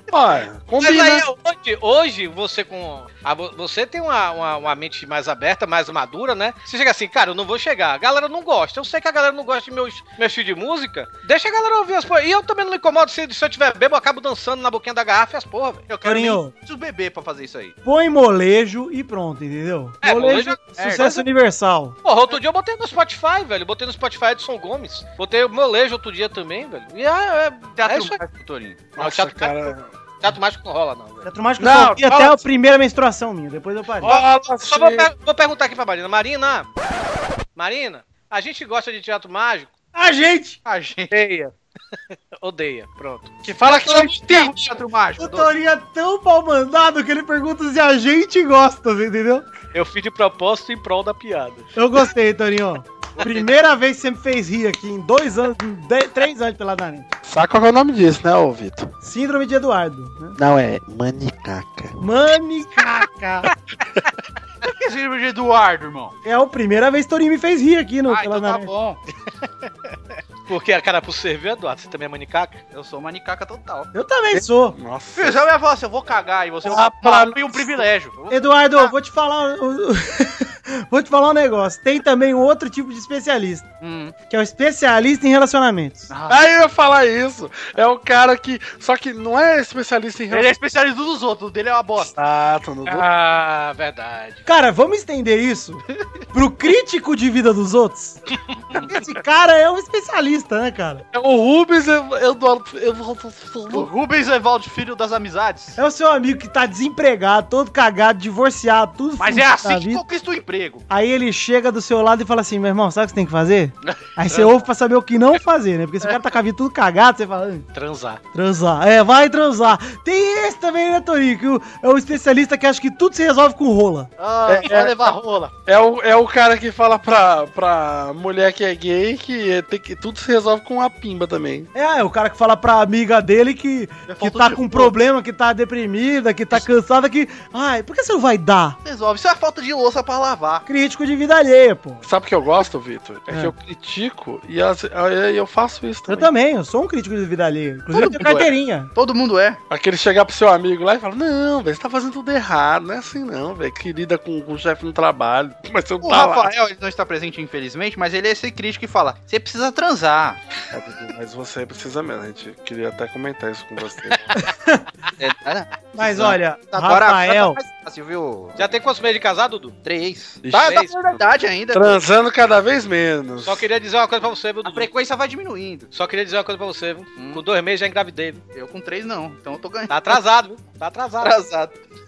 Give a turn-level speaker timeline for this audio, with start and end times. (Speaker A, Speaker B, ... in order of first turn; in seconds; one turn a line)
Speaker A: 0.1-1.2
Speaker B: 0.8-15.9
Speaker C: 15.9-17.7
Speaker D: 16.0-16.5
Speaker D: 17.8-21.9
Speaker B: 20.0-21.1
Speaker C: 20.8-21.2
Speaker B: 22.0-28.2
Speaker C: 27.8-28.9
Speaker A: 28.9-29.9
Speaker B: 29.0-31.3
Speaker D: 31.2-34.1
Speaker A: 31.6-32.4
Speaker A: 34.0-35.1
Speaker B: 34.0-36.7
Speaker B: 37.5-39.7
Speaker D: 39.9-40.6
Speaker C: 40.6-41.1
Speaker B: 41.1-41.5
Speaker B: 42.3-43.4
Speaker A: 43.4-44.5
Speaker C: 43.6-45.5
Speaker D: 45.2-49.5
Speaker B: 49.7-51.7
Speaker D: 51.8-57.1
Speaker A: 57.2-58.9
Speaker D: 59.0-60.4
Speaker A: 60.4-61.9
Speaker D: 62.0-63.5
Speaker C: 64.6-66.1
Speaker D: 66.2-68.7
Speaker C: 68.1-69.0
Speaker B: 70.5-72.6
Speaker C: 72.7-73.9
Speaker D: 73.9-74.8
Speaker A: 74.3-75.4
Speaker C: 75.1-78.9
Speaker A: 76.6-77.8
Speaker D: 78.3-83.7
Speaker C: 83.8-84.1
Speaker D: 84.3-86.1
Speaker C: 86.1-86.4
Speaker A: 86.3-90.5
Speaker C: 90.3-92.1
Speaker A: 92.0-93.1
Speaker B: 92.8-94.4
Speaker D: 94.5-95.8
Speaker D: 96.3-98.2
Speaker D: 98.9-101.0
Speaker A: 101.1-103.9
Speaker C: 103.7-105.8
Speaker D: 105.8-110.0
Speaker C: 109.2-110.8
Speaker D: 110.9-117.7
Speaker C: 113.8-114.6
Speaker B: 117.7-118.2
Speaker D: 118.3-124.1
Speaker C: 124.2-125.5
Speaker A: 124.5-125.1
Speaker A: 125.7-131.7
Speaker D: 131.7-138.8
Speaker C: 134.1-134.9
Speaker C: 138.8-140.6
Speaker D: 140.7-142.1
Speaker A: 142.0-146.3
Speaker D: 146.1-148.9
Speaker C: 147.9-149.6
Speaker A: 149.7-156.5
Speaker C: 156.0-160.4
Speaker A: 160.7-164.2
Speaker D: 164.4-164.8
Speaker C: 165.2-168.7
Speaker D: 165.9-167.6
Speaker B: 168.6-169.7
Speaker C: 169.8-172.0
Speaker A: 170.4-171.2
Speaker B: 170.6-170.9
Speaker A: 171.7-173.7
Speaker B: 173.4-174.9
Speaker C: 174.6-175.9
Speaker B: 175.9-178.4
Speaker C: 177.2-177.4
Speaker C: 178.5-180.2
Speaker B: 179.9-181.4
Speaker C: 181.2-181.8